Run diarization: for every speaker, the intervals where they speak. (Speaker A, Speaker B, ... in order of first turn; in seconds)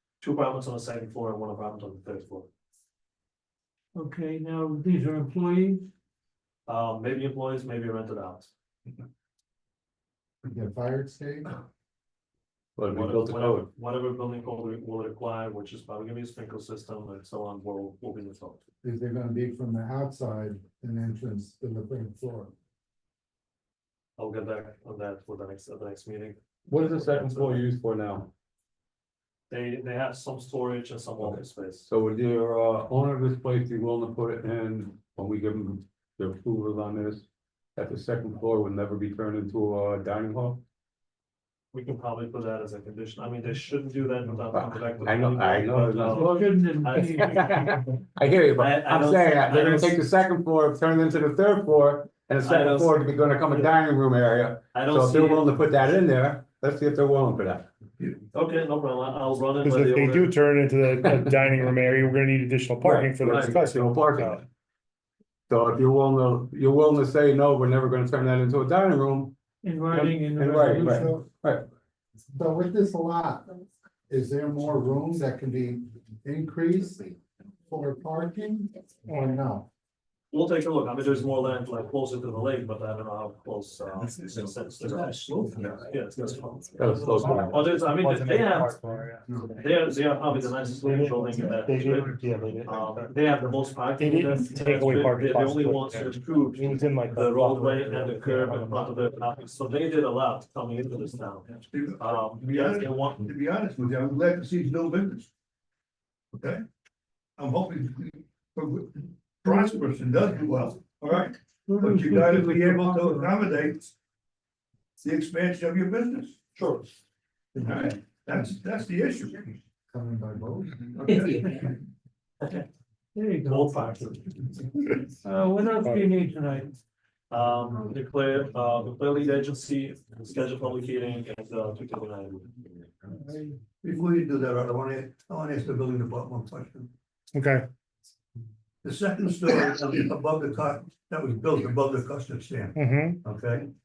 Speaker A: 0.2-2.5, 6.7-8.5, 12.9-18.6, 24.2-27.7, 29.5-31.9, 41.7-47.9, 48.5-50.0, 52.4-53.7, 54.7-56.0, 58.3-60.3, 80.3-88.8, 89.5-103.3, 116.5-116.9, 123.4-124.4, 127.3-132.6
Speaker B: 4.0-5.9, 46.1-47.5, 69.6-71.2, 109.5-109.8, 111.7-113.4, 123.1-123.9, 125.2-126.7, 133.1-133.6
Speaker C: 10.4-11.5, 18.8-22.5, 70.9-71.3, 72.3-73.5, 74.1-79.7, 119.9-120.8
Speaker D: 12.8-13.7, 26.7-28.3, 31.2-40.6, 44.4-46.4, 47.1-57.7, 62.8-64.4, 65.5-69.3, 69.9-71.7, 86.8-87.7
Speaker E: 59.6-64.4, 79.1-79.3, 86.9-89.4, 90.8-93.1, 94.0-99.0, 125.8-126.0, 137.3-137.7, 142.8-143.2
Speaker F: 84.8-86.0, 101.6-105.3, 106.3-106.6, 107.4-113.9, 115.0-116.5, 117.5-119.6, 120.9-121.7, 133.8-136.9, 138.8-143.7